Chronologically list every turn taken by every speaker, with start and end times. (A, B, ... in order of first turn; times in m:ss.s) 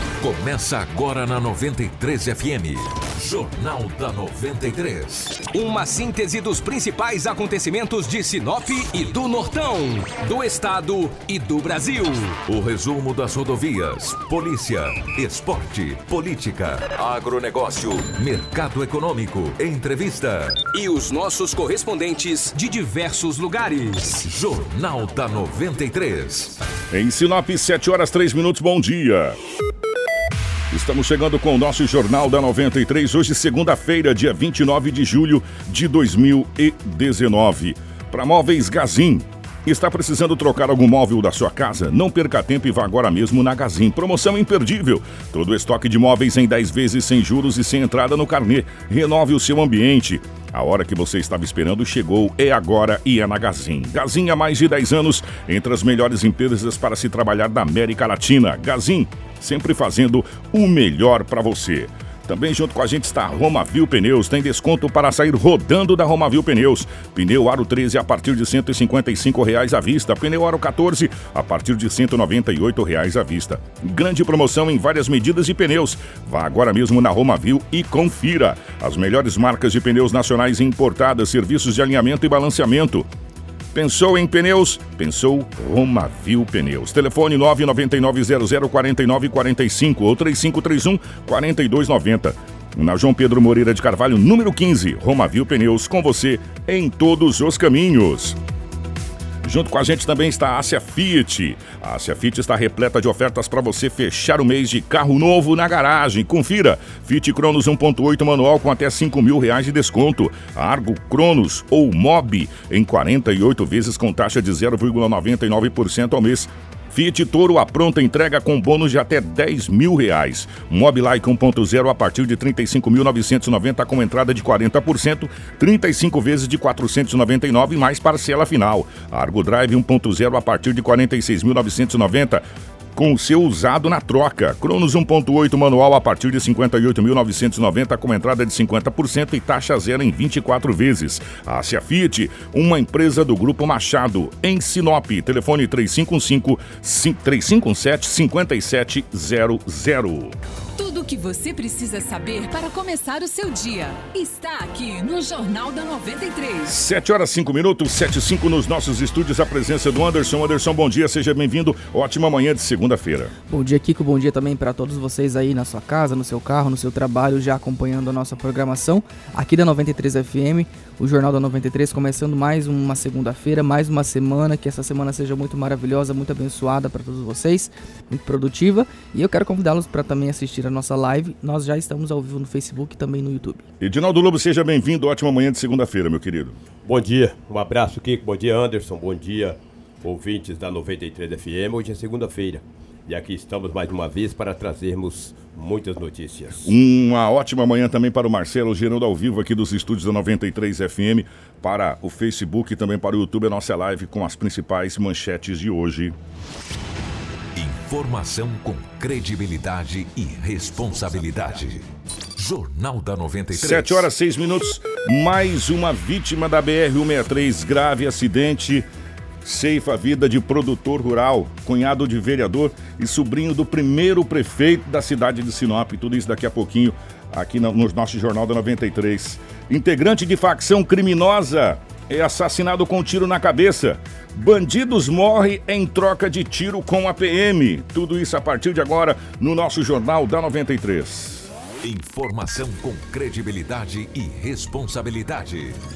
0:00.2-0:05.4 A
0:05.5-0:12.4 B
0:12.4-0:20.6 A
0:20.7-0:24.2 B
0:24.2-0:26.6 A
0:26.9-0:29.4 C
0:30.7-1:23.1 C
1:23.7-1:38.4 C
1:39.4-2:30.4 C
2:30.8-2:36.7 D
2:36.6-2:43.3 C
2:43.5-3:03.6 E
3:03.8-3:06.6 C
3:06.8-3:16.7 F
3:16.6-3:26.2 C
3:27.5-3:34.1 A
3:33.5-3:38.9 C
3:39.4-4:01.5 C
4:01.8-4:05.8 A